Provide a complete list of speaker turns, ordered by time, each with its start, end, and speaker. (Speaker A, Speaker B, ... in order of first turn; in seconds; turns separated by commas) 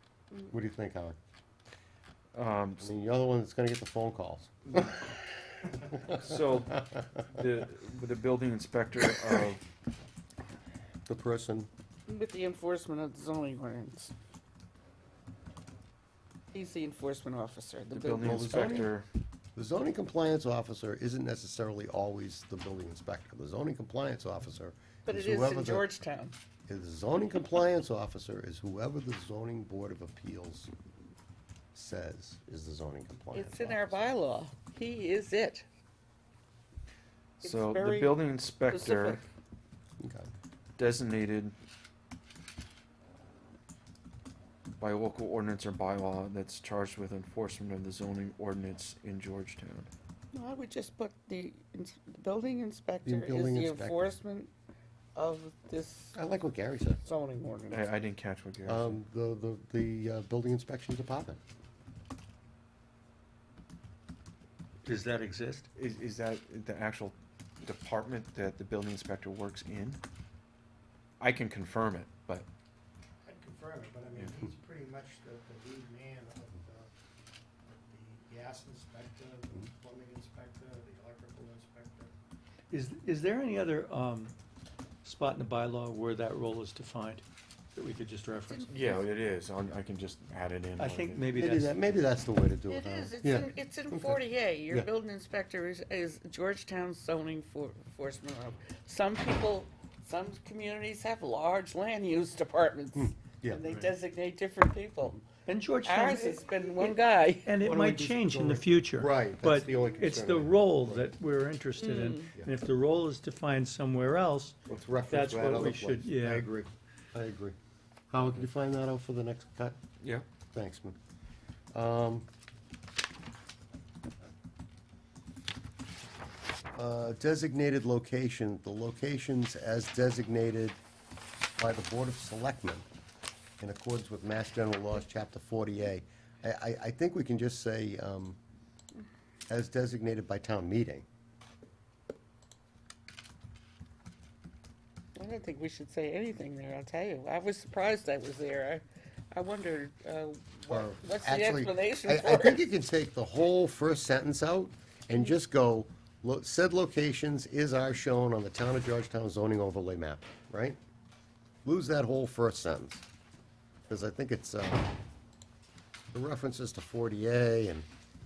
Speaker A: 0.5-1.2, Speaker B: 2.3-2.9, Speaker A: 2.8-5.0, Speaker B: 6.1-9.6, Speaker A: 11.1-11.7, Speaker C: 12.1-14.1, Speaker C: 16.5-18.7, Speaker B: 17.9-19.1, Speaker A: 18.2-18.9, Speaker A: 19.6-25.9, Speaker C: 25.1-26.4, Speaker A: 26.7-30.7, Speaker A: 31.7-33.9, Speaker C: 33.3-35.6, Speaker B: 37.4-39.2, Speaker C: 37.4-39.3, Speaker A: 40.0-40.3, Speaker B: 40.8-41.5, Speaker B: 44.8-49.9, Speaker C: 50.3-54.5, Speaker A: 53.0-54.1, Speaker C: 55.1-56.2, Speaker A: 56.1-57.0, Speaker C: 57.0-57.9, Speaker B: 57.7-59.0, Speaker A: 58.6-61.4, Speaker D: 64.8-65.7, Speaker B: 65.8-70.0, Speaker B: 71.2-72.5, Speaker E: 73.2-76.9, Speaker E: 77.6-82.1, Speaker D: 82.7-84.3, Speaker D: 85.0-88.7, Speaker C: 88.5-89.1, Speaker B: 88.7-91.3, Speaker D: 90.8-91.8, Speaker A: 91.3-94.9, Speaker C: 92.7-105.2, Speaker A: 102.9-103.6, Speaker D: 105.5-114.5, Speaker C: 105.8-107.6, Speaker A: 107.6-111.1, Speaker C: 111.8-112.3, Speaker A: 114.7-117.5, Speaker D: 115.1-116.5, Speaker A: 118.1-119.8, Speaker A: 120.5-121.0, Speaker A: 121.7-122.3, Speaker A: 126.7-130.8, Speaker A: 131.6-132.8, Speaker A: 133.6-138.4, Speaker A: 139.5-141.1, Speaker C: 145.2-152.6, Speaker A: 150.7-160.8, Speaker A: 161.6-163.0, Speaker A: 163.9-164.9, Speaker A: 166.1-167.9